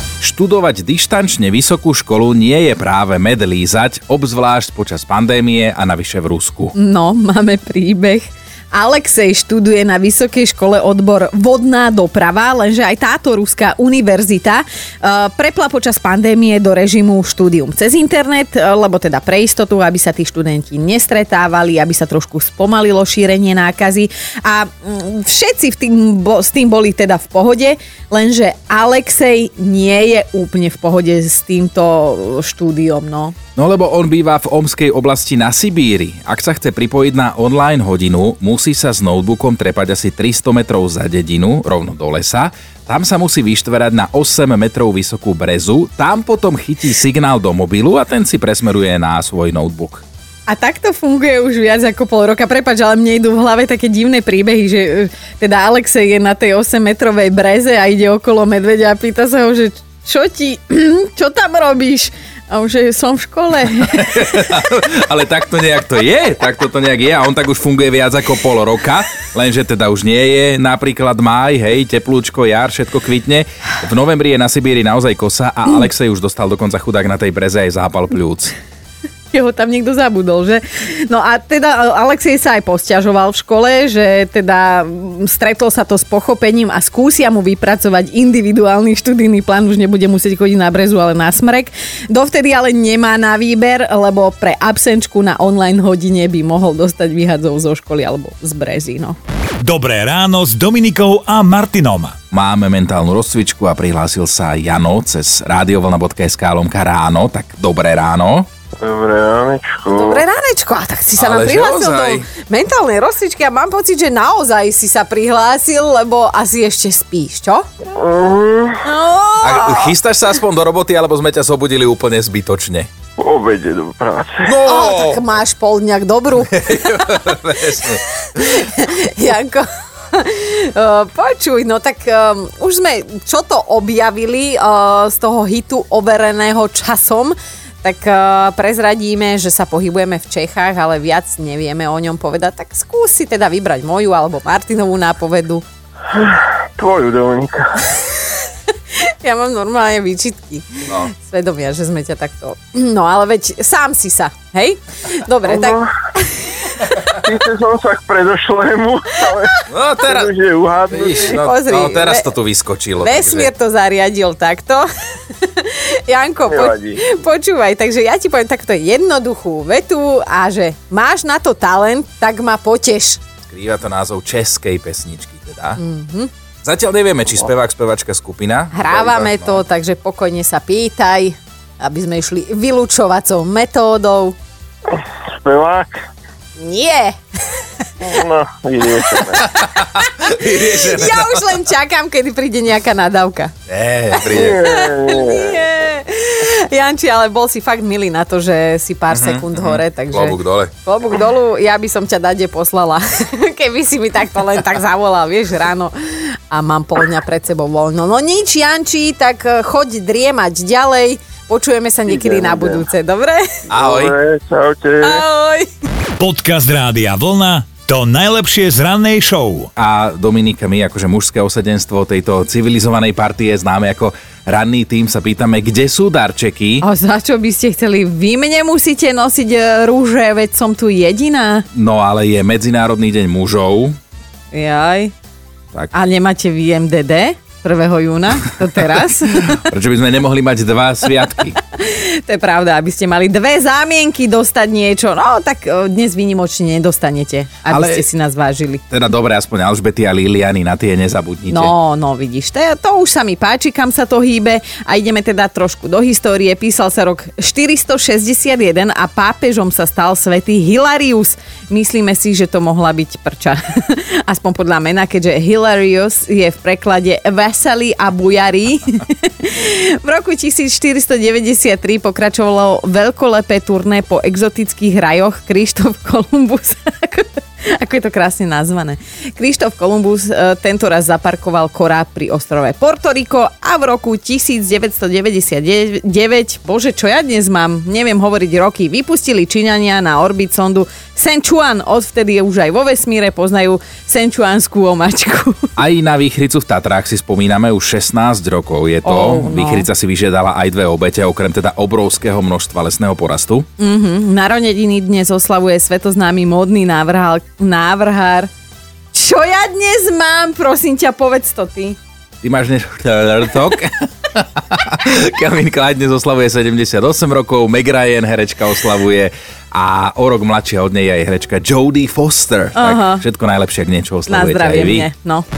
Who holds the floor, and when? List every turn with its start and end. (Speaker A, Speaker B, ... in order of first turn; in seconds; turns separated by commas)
Speaker A: 0.2-6.7, Speaker B: 6.8-33.4, Speaker A: 33.6-50.0, Speaker B: 50.5-64.1, Speaker A: 63.9-78.5, Speaker B: 79.3-99.2, Speaker C: 99.6-102.2, Speaker A: 102.3-108.5, Speaker D: 108.8-110.2, Speaker B: 109.9-117.7, Speaker A: 111.2-112.3, Speaker D: 117.9-118.8, Speaker B: 118.8-119.9, Speaker A: 119.4-122.9, Speaker D: 123.2-124.6, Speaker A: 124.5-125.3, Speaker B: 124.6-127.3, Speaker A: 126.5-128.0, Speaker B: 128.3-145.7, Speaker D: 146.1-147.8, Speaker B: 148.0-148.2, Speaker B: 149.0-156.8, Speaker D: 155.5-155.9, Speaker D: 157.1-161.4, Speaker A: 159.7-160.3, Speaker A: 160.9-163.5, Speaker B: 161.2-162.3, Speaker B: 163.0-164.9, Speaker B: 165.4-173.2, Speaker D: 166.5-167.0, Speaker A: 173.5-175.8, Speaker B: 175.8-176.3, Speaker A: 176.6-179.6, Speaker B: 178.7-184.4, Speaker D: 184.9-186.0, Speaker B: 186.6-187.2, Speaker D: 188.0-189.4, Speaker A: 189.6-191.5, Speaker B: 190.4-193.5, Speaker A: 193.7-194.6, Speaker D: 194.3-195.6, Speaker B: 194.3-213.5, Speaker A: 199.1-200.7, Speaker D: 212.1-212.8, Speaker A: 213.7-214.2, Speaker D: 213.8-215.2, Speaker B: 215.0-215.7, Speaker C: 216.2-219.7, Speaker A: 219.8-226.8, Speaker B: 226.8-231.7, Speaker A: 231.7-234.0, Speaker B: 234.5-235.1, Speaker B: 235.9-239.6, Speaker A: 239.6-241.6, Speaker B: 241.6-248.8, Speaker A: 247.7-248.1, Speaker A: 248.9-251.7, Speaker B: 251.5-295.7, Speaker A: 295.8-303.7, Speaker B: 299.0-299.9, Speaker B: 303.8-308.5, Speaker B: 309.1-312.0, Speaker A: 312.4-325.1, Speaker B: 322.8-323.2, Speaker B: 324.3-325.4